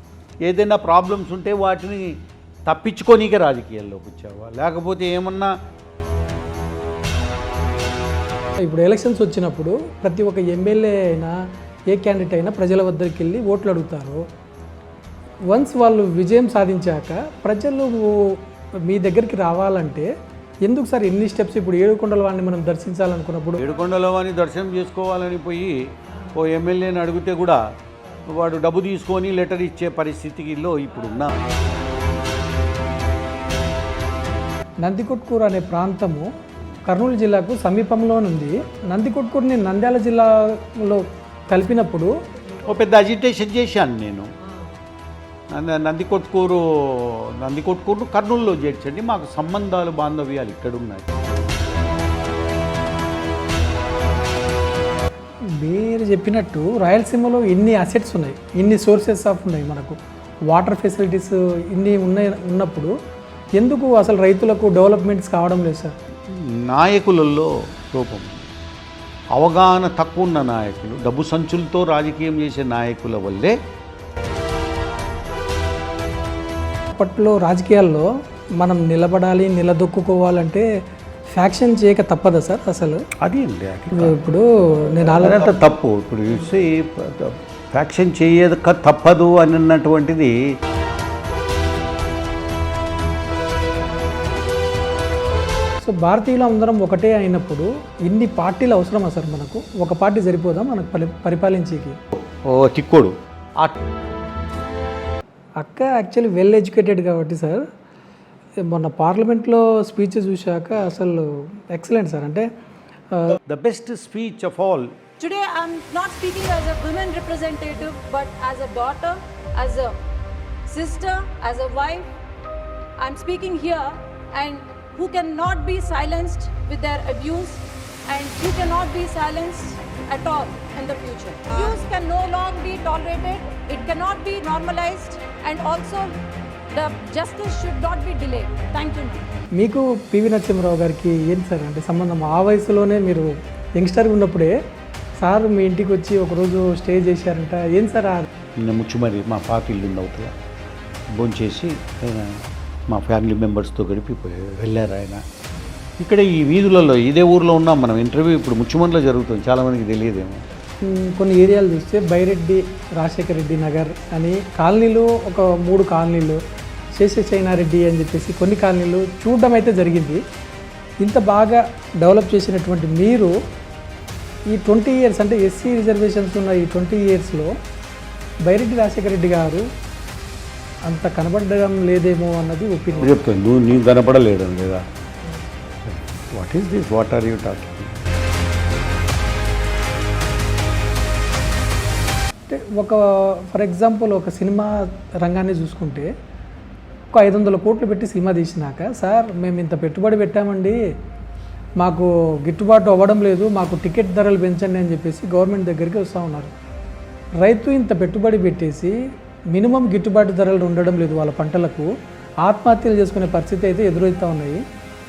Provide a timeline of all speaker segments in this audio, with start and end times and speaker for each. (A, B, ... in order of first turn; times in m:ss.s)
0:00.4-0:05.5 A
0:08.6-0:11.4 B
0:11.9-0:14.2 B
0:15.5-0:20.1 B
0:20.6-0:23.6 B
0:23.6-0:25.7 A
0:26.3-0:27.6 A
0:28.3-0:31.3 A
0:34.8-0:36.3 B
0:36.8-0:42.1 B
0:42.6-0:44.3 A
0:45.5-0:51.1 A
0:55.5-1:00.0 B
1:00.5-1:02.9 B
1:03.6-1:06.0 B
1:06.3-1:08.3 A
1:09.3-1:13.6 A
1:17.0-1:18.1 B
1:18.6-1:20.7 B
1:21.3-1:23.1 B
1:23.2-1:24.2 A
1:23.9-1:25.5 B
1:25.1-1:30.4 A
1:35.8-1:42.0 B
1:42.2-1:43.8 A
1:45.6-1:47.6 B
1:48.6-1:52.5 B
1:53.1-1:53.4 B
1:53.5-1:55.0 A
1:55.2-2:00.0 C
2:00.7-2:02.1 C
2:03.0-2:16.2 C
2:16.7-2:19.2 C
2:19.6-2:24.5 B
2:25.2-2:28.3 B
2:28.6-2:30.3 A
2:31.2-2:35.2 A
2:36.0-2:40.4 A
2:40.8-2:46.4 B
2:47.0-2:50.2 B
2:51.0-2:53.3 B
2:54.5-2:57.5 B
2:58.4-2:59.7 B
3:00.9-3:03.2 B
3:03.0-3:04.9 A
3:05.9-3:08.0 A
3:12.5-3:16.1 B
3:17.1-3:20.8 B
3:21.8-3:26.5 B
3:27.4-3:29.0 B
3:29.5-3:31.9 B
3:32.4-3:34.6 B